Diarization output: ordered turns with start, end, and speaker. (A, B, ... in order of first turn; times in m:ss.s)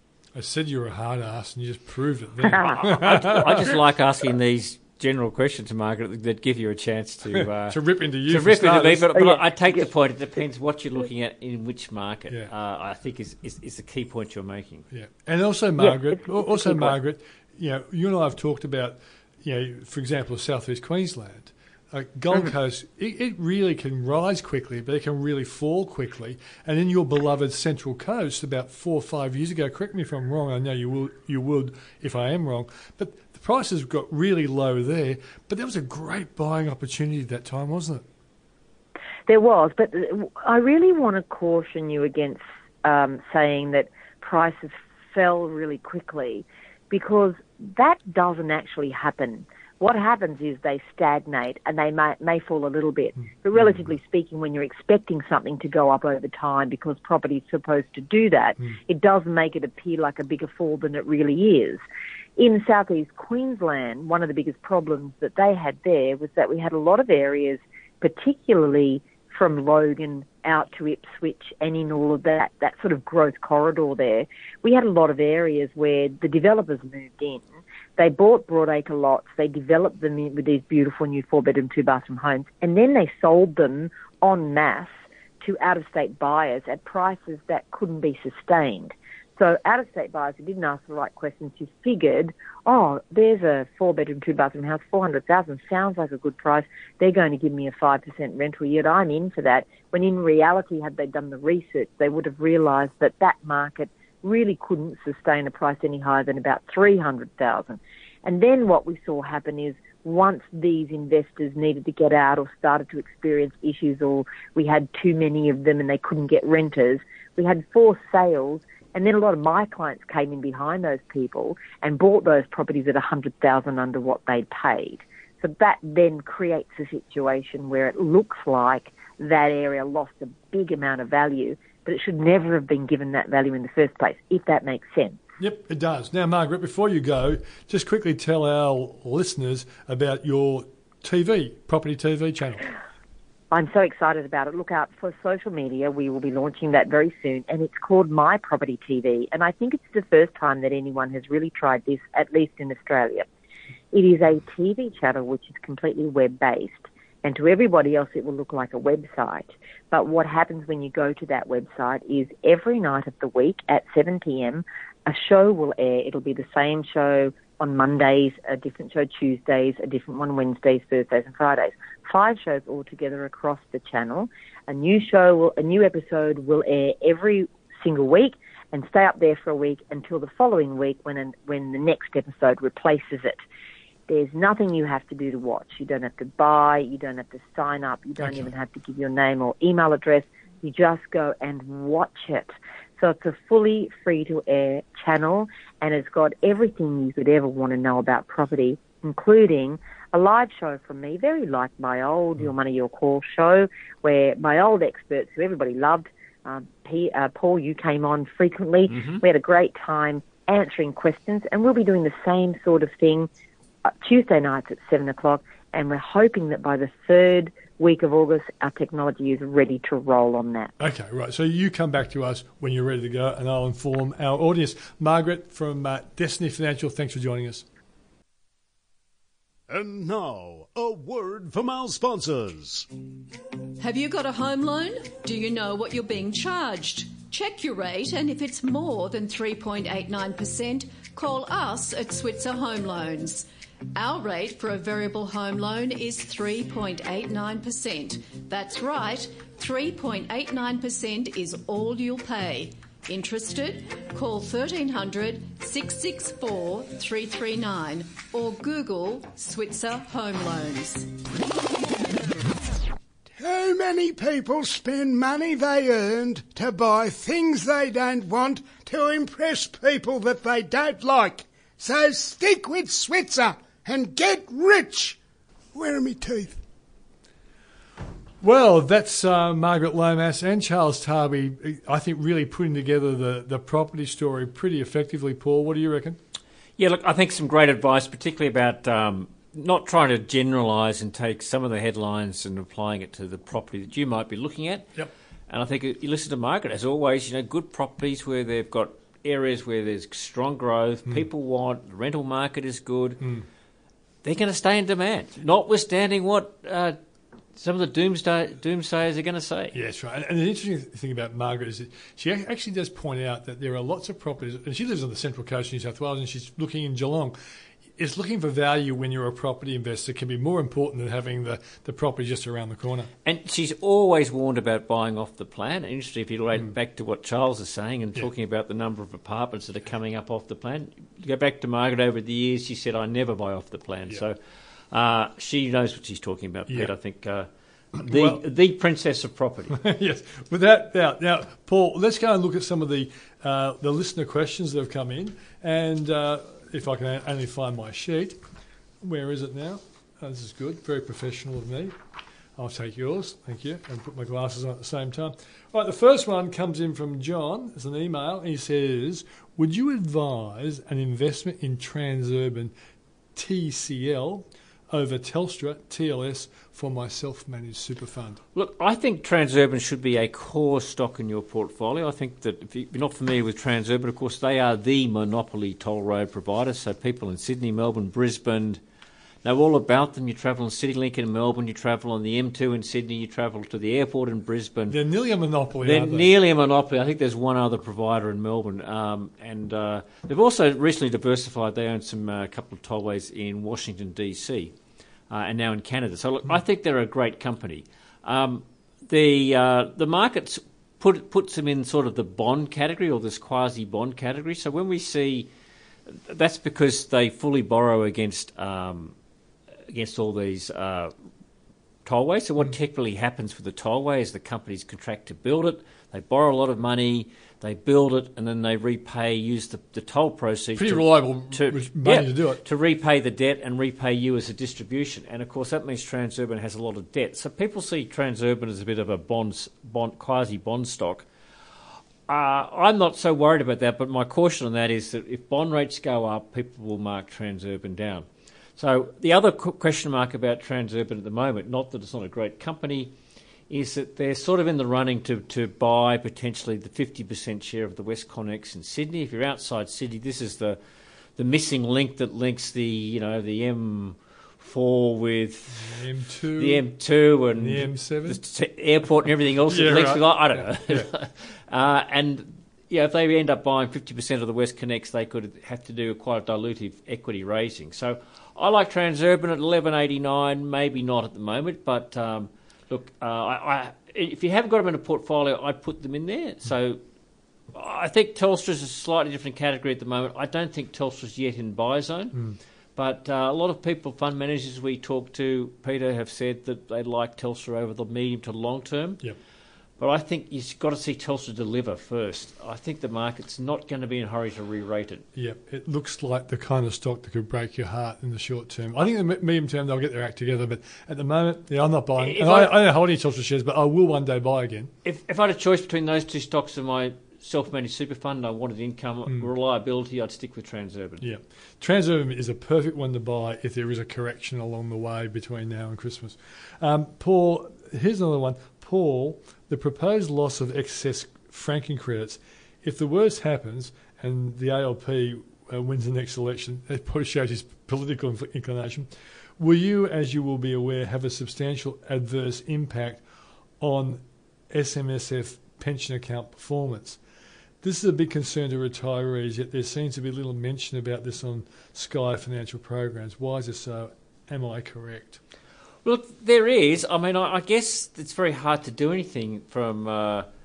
0:00.3-0:03.8 A
0:02.8-0:14.9 B
0:07.4-0:09.3 A
0:14.9-0:38.0 A
0:15.8-0:16.9 C
0:39.3-1:01.8 C
1:02.4-1:17.4 C
1:18.0-2:15.2 C
2:15.4-2:22.7 A
2:23.5-2:33.3 C
2:33.9-3:03.4 C
3:04.1-3:33.3 C
3:28.9-3:29.2 B
3:33.9-3:40.7 C
3:40.8-3:47.6 A
3:49.7-3:52.9 D
3:53.8-4:21.1 E
4:23.4-4:35.2 F
4:35.7-4:36.6 F
4:38.4-4:46.2 A
4:46.8-4:54.9 B
4:55.5-5:03.3 B
5:04.2-5:07.0 B
5:07.6-5:09.8 B
5:09.7-5:17.4 A
5:18.0-5:23.1 A
5:23.2-5:34.4 B
5:34.9-5:39.8 B
5:38.0-5:38.4 A
5:39.7-5:48.4 A
5:49.0-5:52.0 A
5:52.6-6:02.7 A
6:03.4-6:08.4 A
6:08.6-6:18.8 B
6:19.4-6:25.0 B
6:24.9-6:26.3 A
6:25.8-6:34.7 B
6:35.3-6:45.5 B
6:46.1-6:49.1 B
6:49.9-6:51.1 B
6:52.0-7:11.3 B
7:00.8-7:02.6 A
7:12.3-7:18.3 B
7:18.8-7:23.1 B
7:23.7-7:30.8 B
7:31.4-7:36.0 B
7:35.7-7:36.9 A
7:36.6-7:57.0 B
7:37.6-7:38.4 A
7:39.7-7:41.1 A
7:57.7-8:02.4 B
8:03.0-8:09.2 B
8:10.0-8:15.2 B
8:15.4-8:24.9 A
8:22.2-8:22.8 B
8:25.0-8:31.3 B
8:31.2-8:53.2 A
8:53.8-8:57.2 A
8:57.8-9:05.4 A
9:06.0-9:10.5 B